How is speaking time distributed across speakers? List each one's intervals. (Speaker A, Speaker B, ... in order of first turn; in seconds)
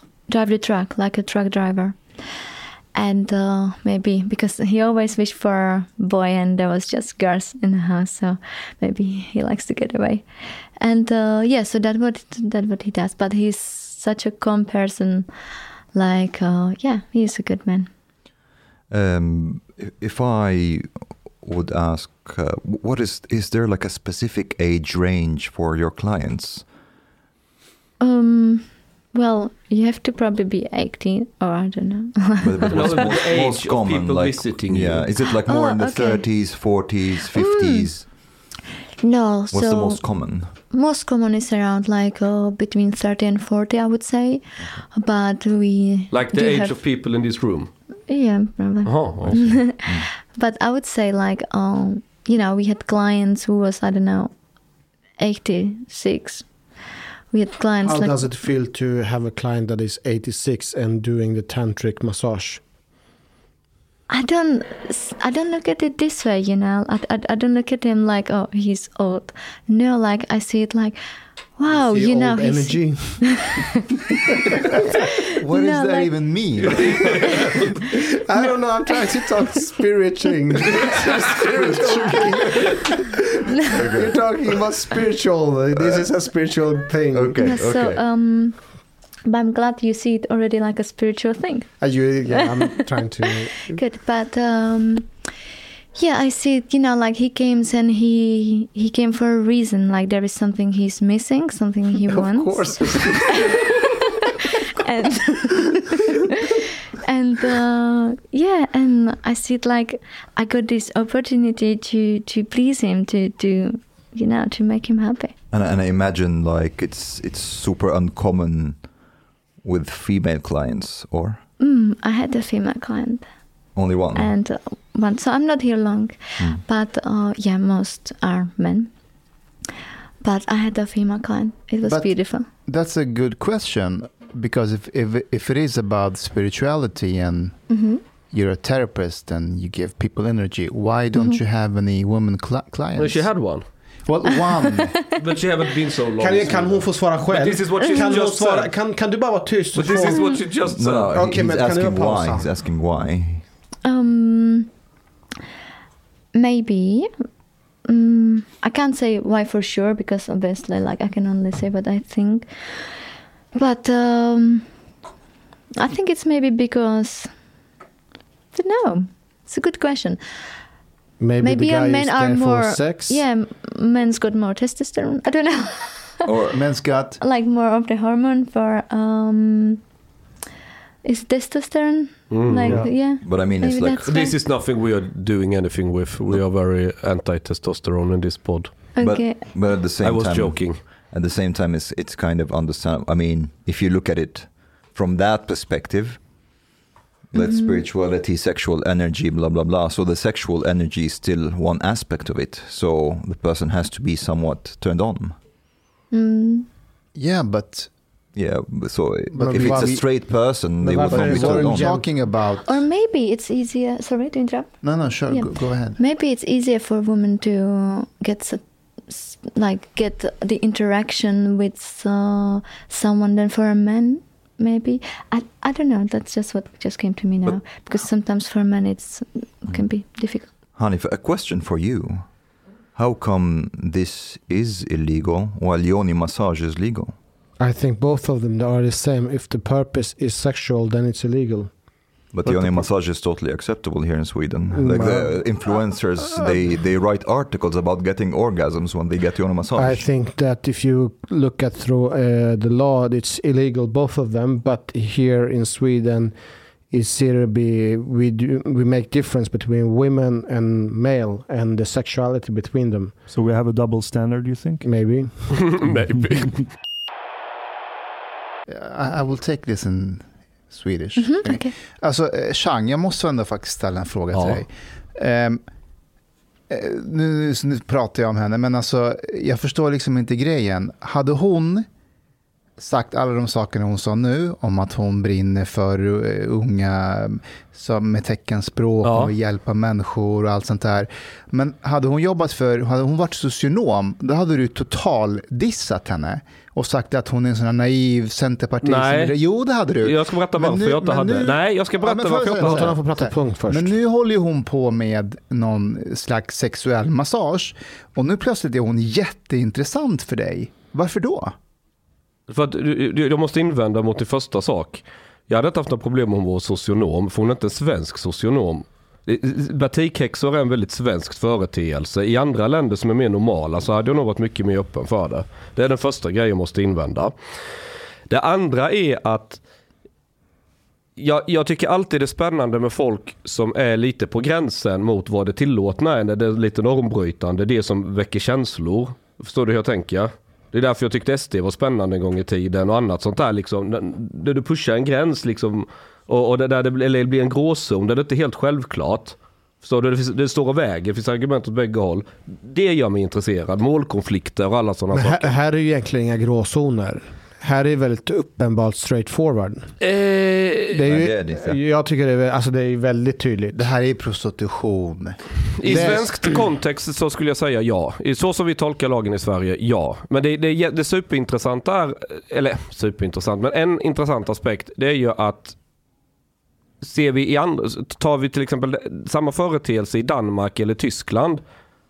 Speaker A: 0.3-2.0, 2.9-10.2, 10.8-15.3, 15.9-17.9, 28.0-33.0, 35.5-36.3, 37.4-38.1, 39.0-46.8, 48.1-54.3, 55.2-56.5, 57.3-58.1, 64.1-71.0, 71.6-73.7, 75.5-76.2, 78.3-79.7, 87.4-88.6, 89.2-93.1, 93.7-95.1, 96.0-106.3, 107.0-115.3, 121.6-123.2, 124.2-128.9, 130.2-132.5, 137.7-138.0, 144.5-144.8, 147.8-148.1, 150.0-150.4, 153.8-154.7, 156.3-157.1, 157.9-162.9, 163.5-164.7, 165.8-167.3, 168.5-170.2, 171.4-176.3, 177.2-179.8, 181.0-184.4, 188.9-189.4, 197.3-197.8, 206.1-206.7, 212.6-230.5, 271.2-271.8
Speaker B: 18.9-20.9, 21.4-26.7, 32.4-38.1, 39.5-40.5, 49.2-50.1, 81.4-82.8, 83.7-84.6, 85.8-86.1, 87.1-88.0, 115.5-118.8, 119.6-121.4, 123.8-124.3, 150.6-153.4, 176.3-176.6, 183.1-184.1, 189.0-196.2, 197.3-205.4, 208.3-212.0, 230.7-232.3, 232.9-237.2, 242.3-250.1, 361.1-361.8
Speaker C: 32.7-35.1, 46.1-47.7, 48.9-49.5, 76.7-77.7, 143.0-143.7, 145.1-148.7, 149.7-151.1, 182.3-182.8, 184.1-188.9, 190.0-190.8, 265.5-266.7, 274.3-274.6, 289.0-289.3, 298.8-303.0, 312.5-327.3, 328.3-329.6, 331.2-355.5, 360.0-361.0, 365.8-375.8, 377.0-381.6
Speaker D: 57.9-62.6, 71.7-73.5, 77.9-87.5, 91.8-93.8, 102.1-103.7, 146.2-150.4, 151.1-152.5, 171.2-173.2, 209.4-212.1, 237.6-241.7, 244.7-245.8, 249.8-263.3, 264.8-265.8, 302.6-303.9, 355.1-359.9, 360.9-363.9, 365.9-366.6
Speaker E: 75.4-77.3, 131.9-137.7, 138.3-143.5, 144.1-145.1, 176.5-177.2, 207.2-207.9, 209.3-212.8, 214.8-216.0, 268.7-275.6, 276.7-281.9, 282.8-311.6, 363.7-366.2
Speaker F: 182.7-182.9, 242.4-242.9, 263.3-265.1